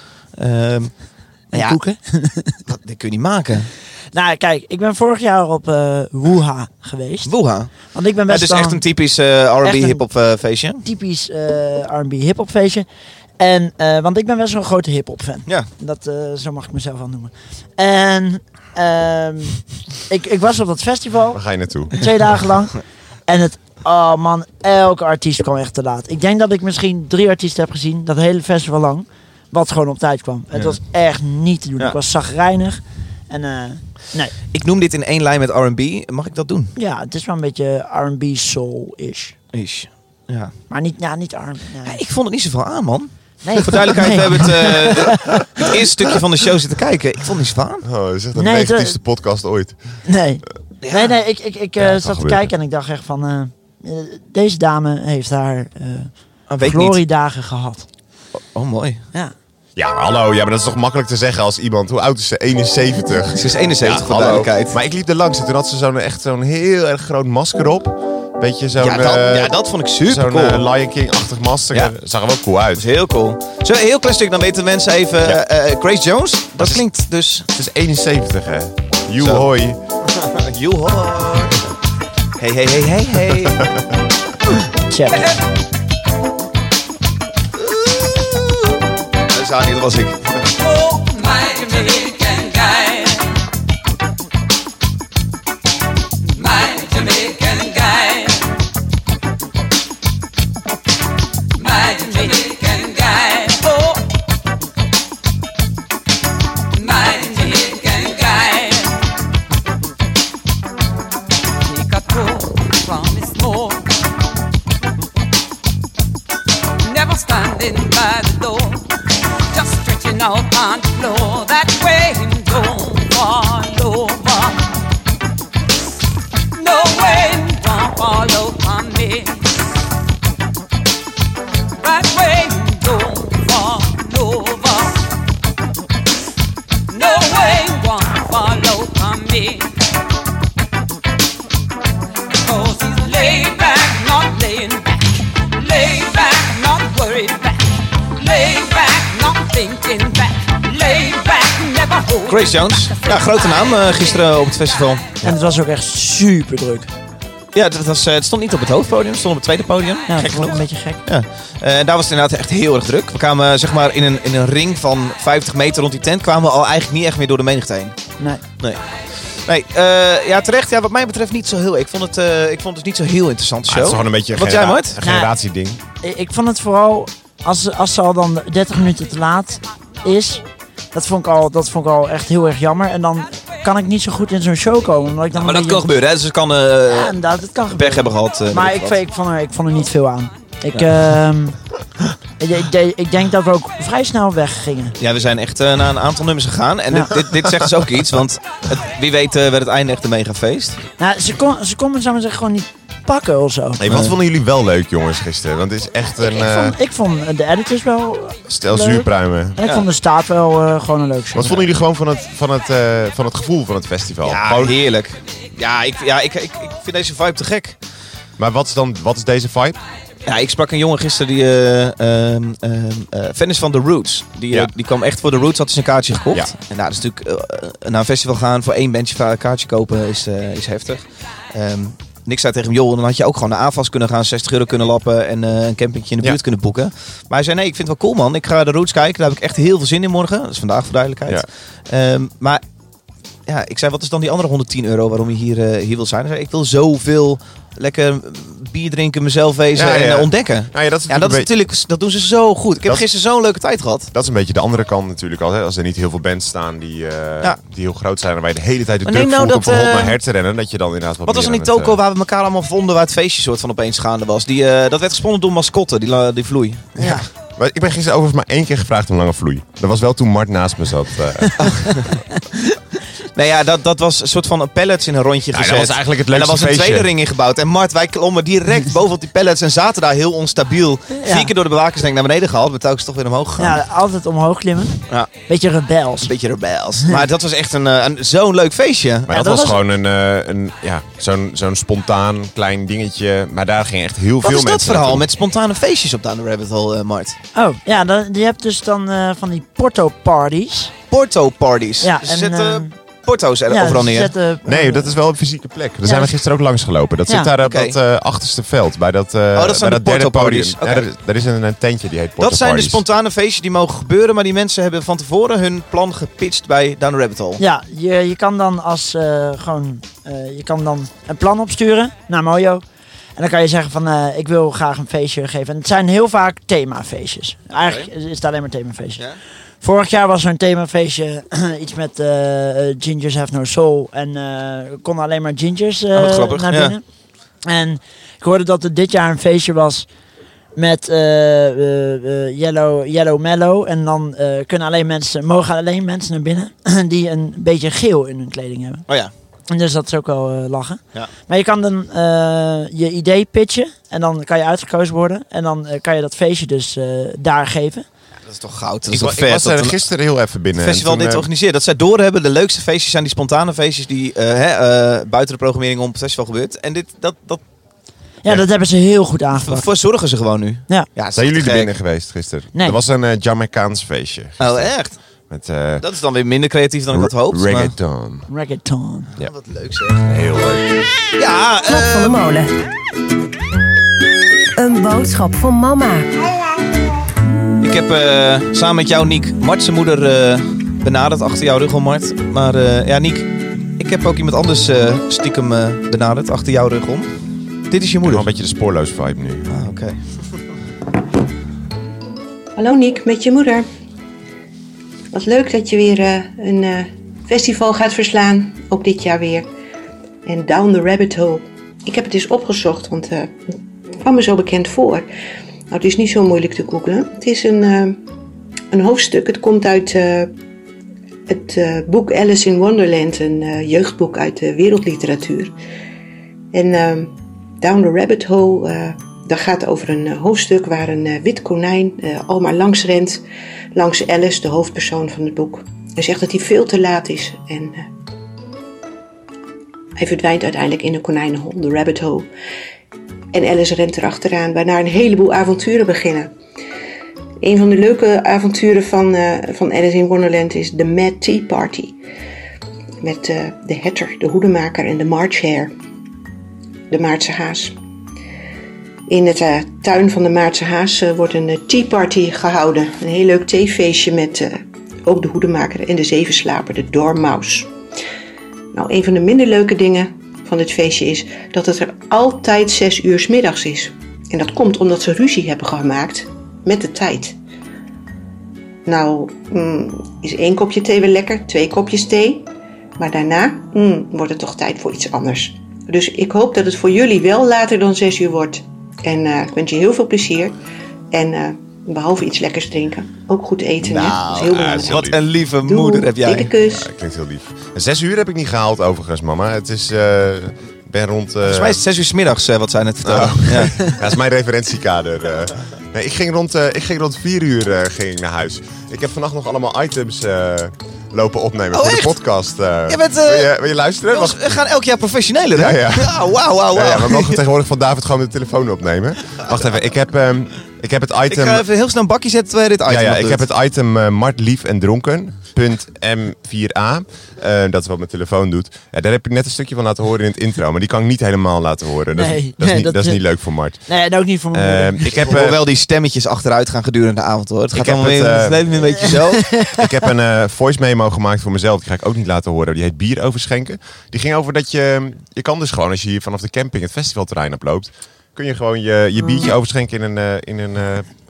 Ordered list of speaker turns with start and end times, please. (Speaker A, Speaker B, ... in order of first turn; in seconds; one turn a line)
Speaker A: 0.3-1.8
Speaker B: 1.5-2.5
Speaker A: 2.6-3.7
Speaker B: 4.1-7.3
Speaker A: 7.2-10.8
Speaker B: 7.8-8.8
Speaker B: 9.6-10.0
Speaker B: 10.8-12.8
Speaker B: 13.4-34.3
Speaker C: 21.3-21.9
Speaker A: 30.5-30.8
Speaker A: 34.5-36.7
Speaker B: 36.8-39.3
Speaker A: 39.5-40.5
Speaker B: 40.7-42.0
Speaker A: 41.8-47.8
Speaker B: 43.4-45.7
Speaker C: 47.8-49.8
Speaker B: 48.3-49.0
Speaker B: 50.1-57.9
Speaker A: 50.8-51.1
Speaker C: 51.8-52.5
Speaker A: 56.5-57.0
Speaker A: 58.3-59.0
Speaker C: 59.8-72.9
Speaker A: 63.3-64.8
Speaker A: 68.8-70.7
Speaker A: 72.7-77.5
Speaker C: 76.6-76.8
Speaker C: 77.5-79.8
Speaker A: 79.2-79.5
Speaker A: 80.1-81.7
Speaker A: 82.4-83.6
Speaker C: 83.6-83.8
Speaker B: 84.9-85.3
Speaker A: 87.6-88.6
Speaker A: 89.3-90.4
Speaker D: 90.6-93.3
Speaker D: 96.2-98.5
Speaker D: 101.5-104.0
Speaker D: 106.7-109.0
Speaker D: 111.6-113.8
Speaker D: 116.8-118.9
Speaker D: 119.5-124.6
Speaker D: 126.5-129.4
Speaker D: 131.8-134.9
Speaker D: 136.9-139.7
Speaker D: 142.4-154.2
Speaker A: 152.3-155.0
Speaker B: 155.2-156.9
Speaker A: 157.5-168.0
Speaker B: 160.1-161.0
Speaker A: 168.6-175.0
Speaker C: 173.7-175.8
Speaker B: 175.0-175.3
Speaker B: 176.0-185.8
Speaker A: 185.3-187.2
Speaker B: 186.9-191.6
Speaker A: 187.7-189.0
Speaker B: 192.4-194.9
Speaker A: 195.0-200.8
Speaker B: 201.0-203.9
Speaker C: 203.8-206.8
Speaker A: 203.9-204.1
Speaker B: 206.2-211.6
Speaker C: 208.5-209.6
Speaker C: 211.3-214.8
Speaker A: 214.2-217.8
Speaker C: 218.4-219.8
Speaker A: 220.2-242.6
Speaker A: 243.4-254.1
Speaker C: 249.7-251.5
Speaker C: 254.1-262.0
Speaker A: 259.0-260.2
Speaker A: 261.3-267.2
Speaker B: 267.0-267.2
Speaker C: 267.6-272.0
Speaker A: 273.3-283.8
Speaker C: 275.5-277.1
Speaker B: 281.2-281.5
Speaker B: 283.6-286.3
Speaker A: 286.2-289.7
Speaker C: 289.3-295.2
Speaker A: 294.4-297.4
Speaker B: 297.5-300.9
Speaker A: 301.1-304.3
Speaker B: 302.0-302.9
Speaker B: 303.7-305.2
Speaker C: 304.6-313.0
Speaker B: 306.0-306.3
Speaker A: 307.6-308.0
Speaker A: 309.5-311.1
Speaker A: 312.4-317.6
Speaker B: 317.6-322.8
Speaker B: 323.4-329.2
Speaker A: 327.8-328.1
Speaker B: 329.8-337.0
Speaker A: 336.1-336.9
Speaker B: 337.6-340.1
Speaker B: 340.8-349.0
Speaker B: 349.7-358.1
Speaker A: 358.4-360.0
Speaker C: 359.1-361.5
Speaker A: 360.7-367.6
Speaker B: 368.4-369.9
Speaker A: 369.5-371.9
Speaker C: 371.3-374.9
Speaker A: 374.6-375.2
Speaker C: 375.5-376.0
Speaker A: 376.0-377.9
Speaker C: 377.1-378.5
Speaker B: 378.5-379.3
Speaker A: 379.3-380.3
Speaker C: 380.2-381.1
Speaker A: 381.4-382.4
Speaker E: 381.9-382.7
Speaker E: 384.8-386.3
Speaker A: 387.8-397.3
Speaker A: 397.9-398.4
Speaker C: 398.2-399.7
Speaker A: 399.7-400.2
Speaker F: 402.8-403.9
Speaker F: 405.3-409.7
Speaker F: 410.4-415.3
Speaker F: 415.9-418.2
Speaker F: 418.9-420.5
Speaker F: 421.5-425.7
Speaker F: 426.7-433.4
Speaker F: 433.9-438.0
Speaker F: 440.2-442.5
Speaker F: 443.5-446.5
Speaker F: 447.6-452.2
Speaker F: 453.2-455.9
Speaker F: 457.1-457.9
Speaker F: 459.3-467.9
Speaker F: 468.9-477.6
Speaker F: 479.1-482.6
Speaker F: 483.2-490.8
Speaker F: 491.3-495.3
Speaker C: 494.0-495.4
Speaker A: 494.1-496.7
Speaker F: 495.8-497.0
Speaker C: 496.8-502.0
Speaker A: 501.6-504.0
Speaker C: 503.2-514.7
Speaker A: 511.9-512.4
Speaker A: 513.1-513.7
Speaker A: 514.2-517.6
Speaker C: 515.7-521.9
Speaker A: 521.5-523.6
Speaker C: 523.1-535.8
Speaker B: 532.3-533.4
Speaker B: 534.0-535.3
Speaker A: 535.2-539.7
Speaker C: 537.9-539.3
Speaker B: 539.2-540.0
Speaker C: 539.9-551.3